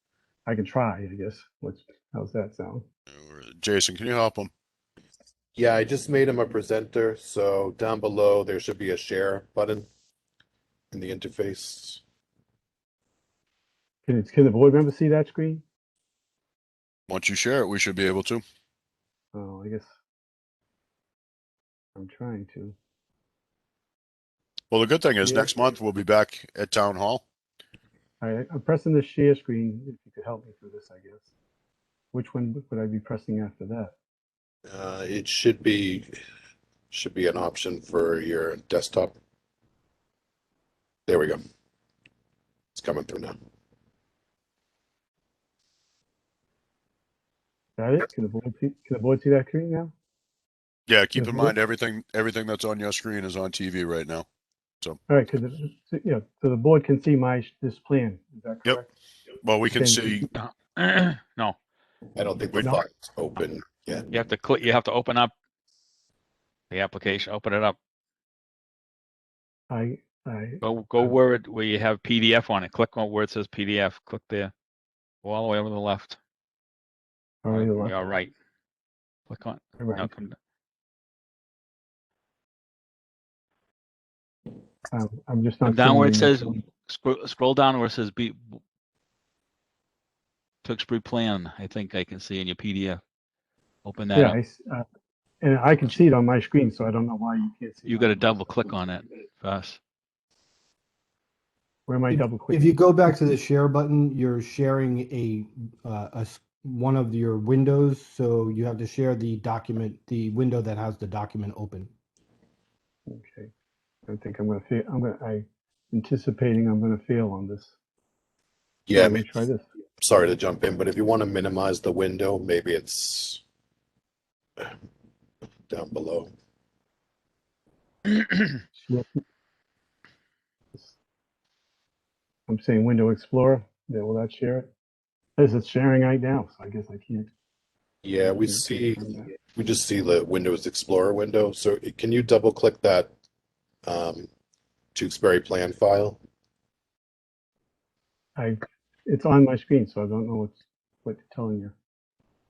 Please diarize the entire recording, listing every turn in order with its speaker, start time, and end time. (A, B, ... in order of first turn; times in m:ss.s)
0:00.4-0:02.8 A
0:03.1-0:04.5 B
0:05.5-0:09.9 C
0:10.9-0:12.0 C
0:14.0-0:15.6 A
0:17.1-0:18.4 B
0:19.3-0:19.9 A
0:22.0-0:22.7 A
0:24.7-0:27.2 B
0:25.2-0:25.5 A
0:28.2-0:31.3 A
0:32.1-0:33.9 A
0:34.7-0:36.1 C
0:36.9-0:39.2 C
0:41.1-0:41.4 C
0:42.7-0:43.4 C
0:47.8-0:49.9 A
0:50.9-0:54.2 B
0:51.2-0:51.5 A
0:55.1-0:58.9 A
0:59.4-1:00.3 B
0:59.7-1:00.1 A
1:00.3-1:01.6 D
1:02.1-1:04.2 C
1:04.1-1:05.3 D
1:06.7-1:07.8 D
1:09.7-1:11.1 A
1:10.6-1:14.5 D
1:15.2-1:16.2 D
1:17.4-1:18.0 A
1:17.5-1:18.3 D
1:19.3-1:20.3 D
1:19.8-1:20.2 A
1:24.9-1:26.6 A
1:25.6-1:28.6 D
1:30.6-1:33.0 D
1:33.8-1:34.4 D
1:34.1-1:34.8 A
1:35.4-1:38.5 A
1:37.8-1:39.8 D
1:41.9-1:42.7 A
1:42.1-1:51.9 E
1:53.1-1:53.5 A
1:54.1-1:57.7 A
1:58.9-1:59.3 C
1:58.9-1:59.6 A
2:00.0-2:03.4 C
2:05.7-2:06.3 C
2:08.8-2:09.2 A
2:12.5-2:14.7 A
2:15.4-2:17.3 A
2:18.0-2:23.1 C
2:18.2-2:19.2 A
2:23.8-2:24.3 C
2:24.9-2:26.2 C
2:28.4-2:31.7 A